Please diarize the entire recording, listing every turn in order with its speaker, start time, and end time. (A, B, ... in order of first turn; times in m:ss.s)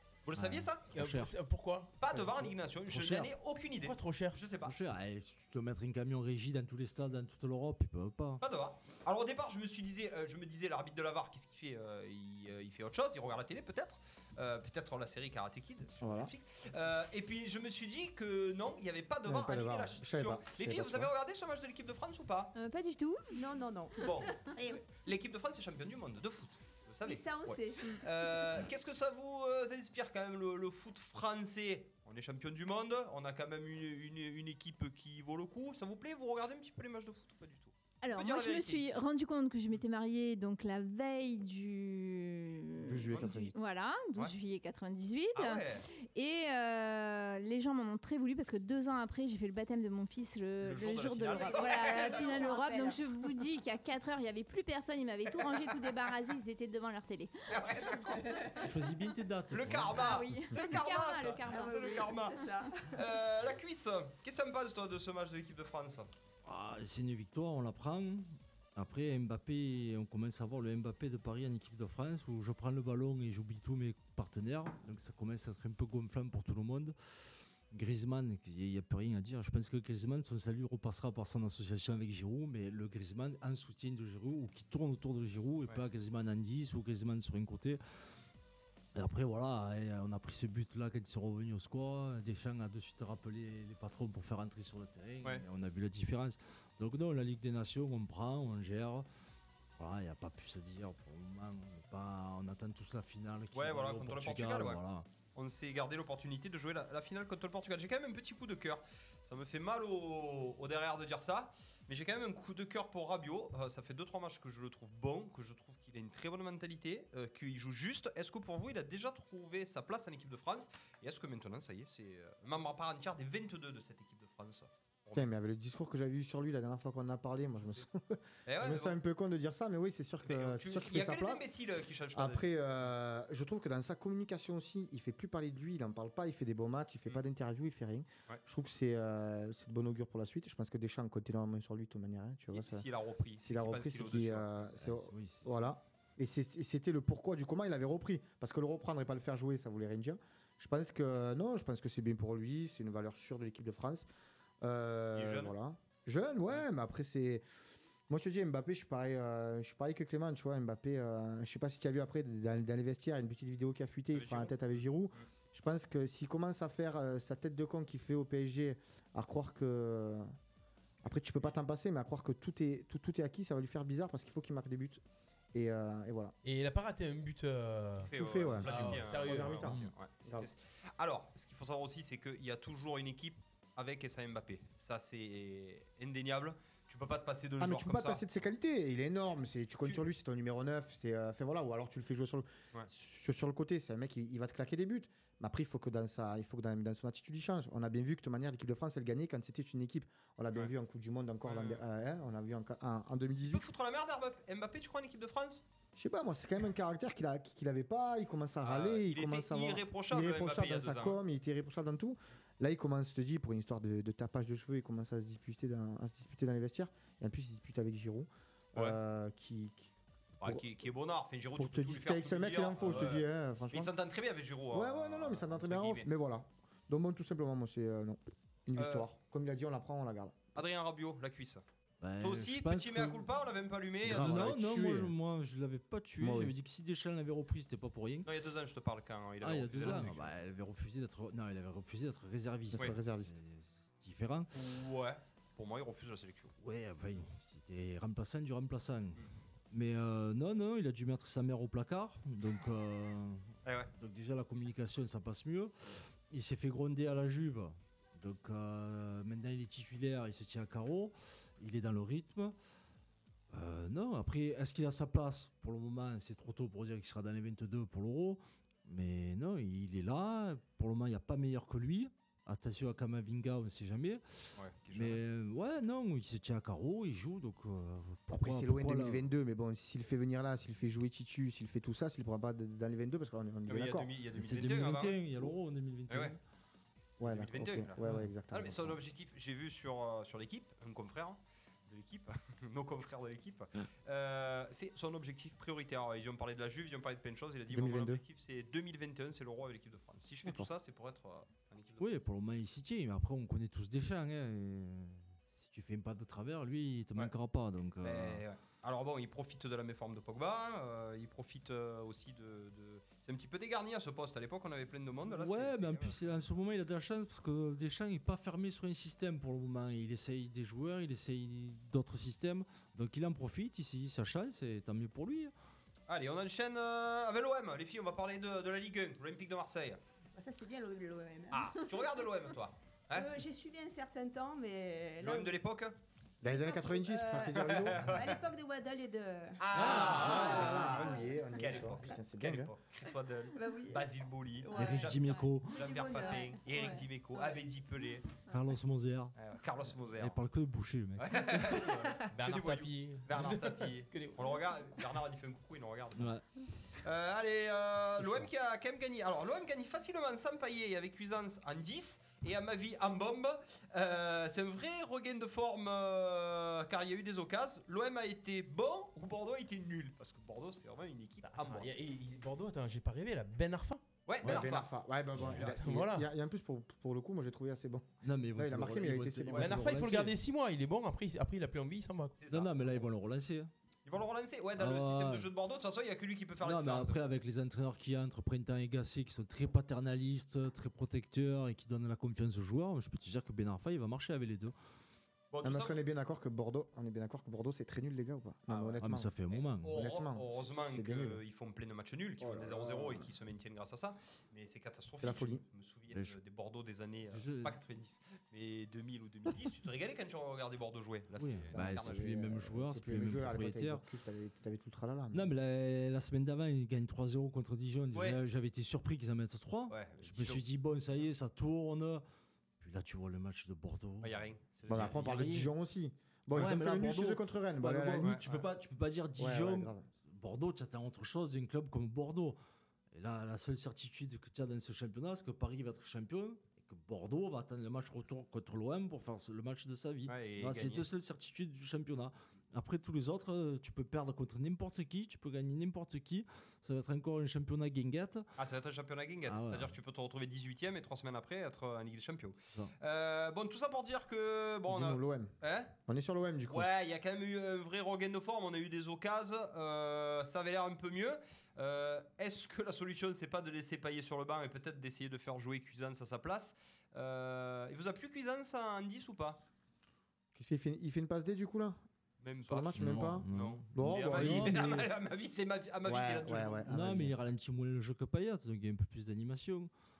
0:00.2-0:00.8 A
0:00.4-0:01.3 B
0:00.9-0:01.9 C
0:02.0-0:04.7 A
0:02.1-0:02.5 D
0:02.9-0:03.3 B
0:03.8-0:04.4 C
0:04.6-0:08.4 B
0:08.4-0:22.5 A
0:16.0-0:16.3 D
0:19.2-0:21.1 D
0:22.5-0:23.2 E
0:23.3-0:24.8 F
0:24.0-0:39.0 A
0:27.0-0:28.6 F
0:38.0-0:57.3 E
0:42.8-0:43.5 D
0:45.3-0:45.8 A
0:50.6-0:52.3 A
0:51.4-0:53.3 F
0:57.5-0:58.2 A
0:58.6-1:00.2 B
0:59.5-1:06.1 A
1:00.0-1:02.2 E
1:01.5-1:03.0 F
1:06.4-1:16.9 B
1:17.7-1:27.8 B
1:28.9-1:39.1 B
1:39.8-1:45.0 B
1:43.5-1:44.8 A
1:45.3-2:05.2 A
2:05.1-2:11.4 D
2:08.5-2:09.0 A
2:10.2-2:12.5 A
2:12.1-2:22.8 D
2:22.5-2:24.5 A
2:23.4-2:34.1 D
2:24.8-2:25.6 B
2:34.6-2:37.4 D
2:35.1-2:35.5 A
2:38.1-2:50.3 D
2:44.1-2:44.6 A
2:51.0-2:55.0 D
2:55.5-2:56.3 D
2:56.4-2:58.1 C
2:58.0-3:08.2 A
2:58.0-3:00.5 D
2:58.6-2:59.8 C
2:58.7-2:59.0 B
3:07.6-3:23.6 D
3:21.4-3:21.8 A
3:23.5-3:25.6 A
3:26.0-3:39.9 D
3:28.6-3:31.2 A
3:40.4-3:46.1 A
3:41.6-3:43.9 D
3:44.7-3:50.5 D
3:48.8-3:49.1 A
3:50.6-3:51.6 A
3:52.0-3:53.2 B
3:52.2-3:54.6 A
3:54.0-3:55.1 D
3:54.0-3:58.3 B
3:56.2-3:56.5 D
3:58.2-4:00.3 A
3:59.4-4:04.5 B
3:59.8-4:00.1 D
4:02.7-4:03.4 D
4:04.5-4:06.5 A
4:06.6-4:15.7 B
4:13.6-4:13.9 A
4:16.3-4:22.5 B
4:23.5-4:34.4 B
4:34.6-4:35.2 A
4:34.9-4:39.3 B
4:38.3-4:44.1 D
4:43.7-4:45.5 A
4:44.4-4:46.4 B
4:46.1-4:46.3 A
4:47.2-4:49.0 D
4:47.2-5:02.2 A
4:48.0-4:48.3 B
4:57.7-4:58.2 D
5:00.4-5:00.7 D
5:02.0-5:08.4 B
5:08.0-5:16.3 A
5:15.2-5:25.5 B
5:26.1-5:30.0 A
5:30.4-5:32.5 F
5:31.5-5:33.4 A
5:33.1-5:35.6 F
5:35.2-5:36.0 A
5:36.4-5:38.1 D
5:36.5-5:41.4 F
5:37.6-5:38.3 A
5:39.6-5:48.3 A
5:39.8-5:40.6 B
5:39.8-5:42.7 D
5:43.5-5:47.6 F
5:44.7-5:45.8 B
5:48.5-5:49.3 B
5:49.4-5:50.4 A
5:50.2-5:51.7 B
5:51.2-5:56.3 A
5:52.3-5:54.4 C
5:56.2-5:56.4 B
5:57.0-6:11.9 A
5:58.2-5:58.4 B
6:11.5-6:14.0 C
6:14.3-6:14.9 A
6:14.4-6:18.0 D
6:15.4-6:15.8 A
6:15.6-6:16.3 C
6:18.2-6:20.4 B
6:18.6-6:20.0 D
6:19.6-6:22.3 C
6:22.4-6:23.0 A
6:22.5-6:23.7 B
6:24.0-6:27.2 A
6:24.8-6:25.5 B
6:26.6-6:34.7 B
6:35.5-6:36.0 A
6:35.6-6:39.3 D
6:38.7-6:39.0 A
6:39.0-6:40.0 B
6:39.5-6:52.2 A
6:39.9-6:41.4 D
6:42.4-6:43.3 D
6:45.2-6:45.6 D
6:47.3-6:47.8 B
6:51.4-6:54.0 B
6:51.7-6:55.5 D
6:55.3-7:02.2 B
6:58.1-6:58.4 A
6:59.9-7:00.6 A
7:02.8-7:05.7 B
7:04.2-7:05.2 A
7:04.9-7:08.4 D
7:06.5-7:12.6 B
7:08.2-7:08.7 A
7:09.4-7:10.0 D
7:13.1-7:28.4 B
7:20.3-7:21.1 A
7:28.6-7:35.9 A
7:29.5-7:29.9 B
7:34.9-7:35.5 D
7:36.1-7:36.9 D
7:36.7-7:49.6 A
7:50.5-7:52.0 D
7:52.4-7:56.9 A
7:52.6-7:54.8 D
7:52.9-7:55.1 B
7:56.0-7:57.4 D
7:56.9-7:59.9 B